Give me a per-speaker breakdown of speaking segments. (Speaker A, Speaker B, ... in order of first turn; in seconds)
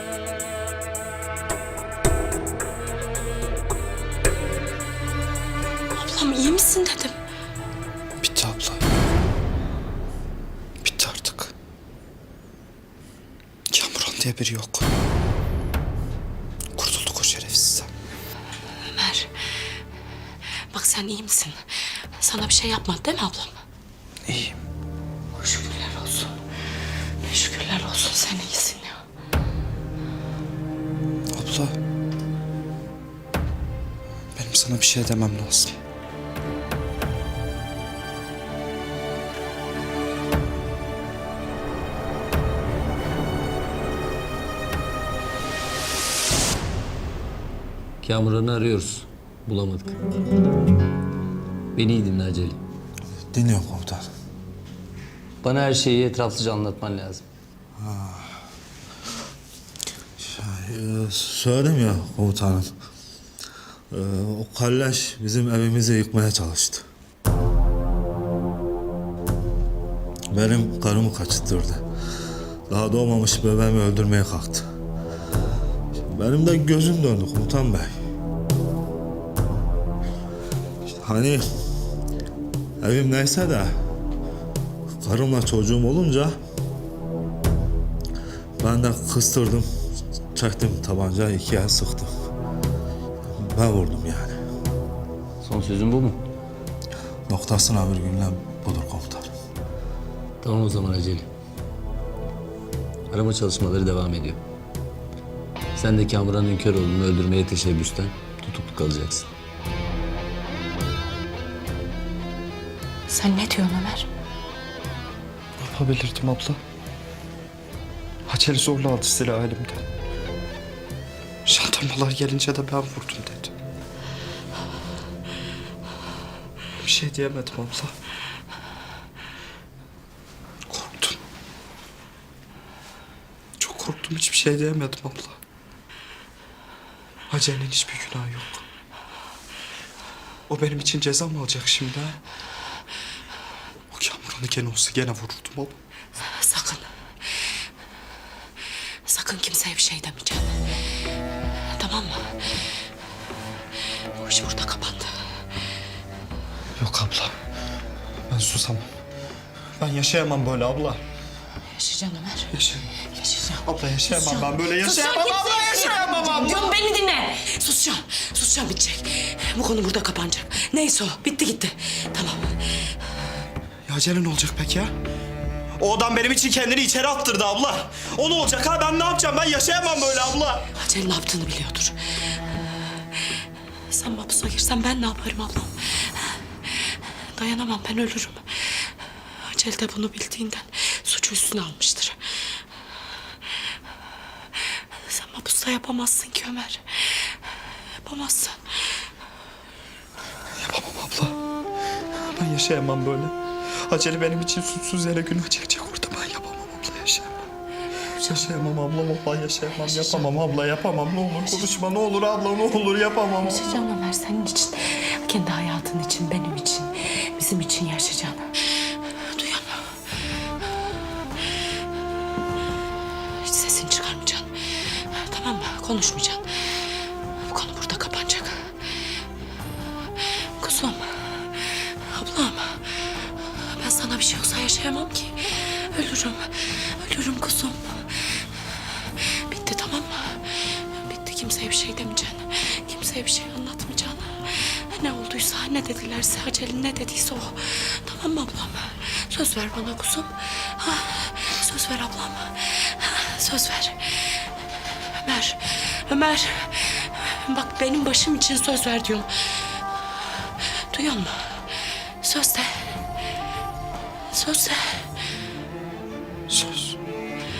Speaker A: 5.9-7.2, 18.9-19.7, 20.7-23.6, 25.4-26.4, 27.2-29.0, 113.1-114.1, 146.2-146.9, 149.1-150.7, 151.7-152.4, 154.2-155.1, 161.7-172.9, 180.8-182.3, 183.9-192.6, 194.8-199.1, 209.8-210.3, 213.4-220.0, 223.4-229.0, 230.4-254.5, 255.1-259.8, 260.5-263.1, 264.3-265.1
Speaker B: 8.2-8.8, 10.8-11.5, 13.7-14.9, 16.8-17.9, 24.3-24.6, 31.3-31.8, 34.4-35.8, 115.6-116.6, 118.3-119.9, 121.5-123.5, 126.8-127.9, 130.7-131.2, 133.6-135.4, 137.3-138.6, 140.5-142.2, 143.9-145.8, 156.8-157.3, 158.3-158.9, 159.8-161.0, 162.5-162.9, 163.7-166.8, 173.9-174.9, 175.8-180.7, 200.6-201.4, 202.3-203.3, 203.9-207.4, 208.2-213.8, 266.5-266.9
Speaker C: 48.0-50.0, 51.8-52.6, 55.4-57.2, 95.4-96.2, 100.4-101.3, 103.1-104.4, 105.8-109.3
Speaker D: 53.3-54.1, 57.8-58.4, 60.2-62.7, 63.9-66.8, 70.3-71.8, 72.7-74.7, 76.1-77.9, 80.9-81.4, 82.8-83.7, 85.0-86.4, 88.6-89.7, 90.3-92.1, 93.3-94.4, 97.3-99.3